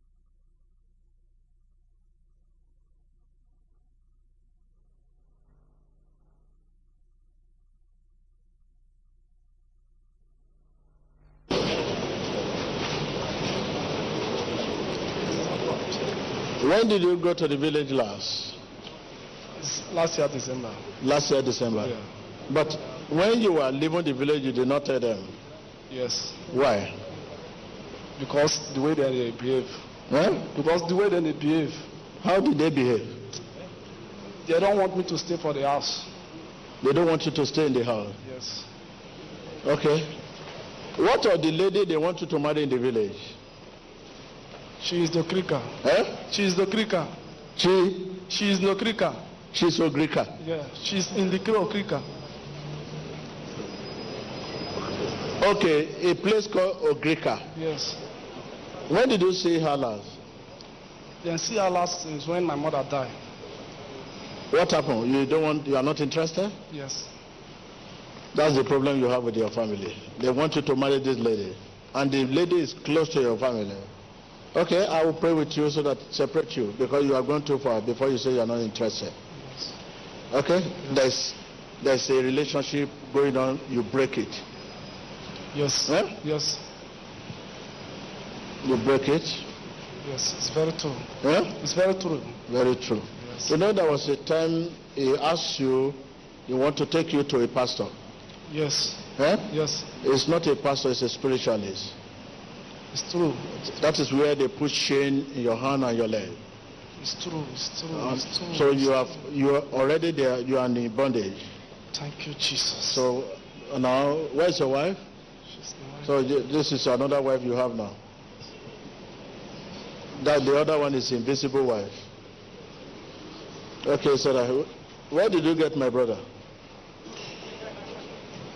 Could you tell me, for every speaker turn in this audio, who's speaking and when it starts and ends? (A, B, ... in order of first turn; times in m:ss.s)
0:16.6-0:18.6 A
0:19.6-0:20.8 B
0:21.0-0:21.9 A
0:22.5-0:25.4 A
0:25.9-0:26.3 B
0:26.5-0:26.9 A
0:28.2-0:29.7 B
0:30.1-0:30.4 A
0:30.5-0:31.8 B
0:32.2-0:33.2 A
0:34.5-0:36.0 B
0:36.8-0:38.2 A
0:38.2-0:38.6 B
0:39.6-0:40.1 A
0:41.0-0:43.4 A
0:44.8-0:45.6 B
0:45.8-0:46.1 A
0:46.3-0:47.1 B
0:47.6-0:48.1 A
0:48.3-0:49.2 B
0:49.5-0:50.3 A
0:50.4-0:52.0 B
0:55.4-0:57.5 A
0:57.6-0:58.0 B
0:58.9-1:00.2 A
1:01.2-1:03.1 B
1:04.5-1:06.6 A
1:06.7-1:07.1 B
1:08.3-1:13.9 A
1:14.5-1:19.2 A
1:20.3-1:24.4 A
1:25.5-1:26.6 B
1:25.8-1:26.1 A
1:28.6-1:29.4 A
1:30.0-1:31.0 B
1:31.2-1:31.6 A
1:31.6-1:32.4 B
1:32.5-1:37.9 A
1:38.5-1:39.8 B
1:39.2-1:39.5 A
1:40.0-1:41.9 A
1:42.9-1:43.5 B
1:43.6-1:46.4 A
1:47.0-1:48.8 B
1:47.9-1:51.5 A
1:51.9-1:53.0 B
1:52.9-1:55.0 A
1:55.6-1:56.1 B
1:56.0-1:58.0 A
2:00.2-2:02.0 A
2:03.8-2:06.2 A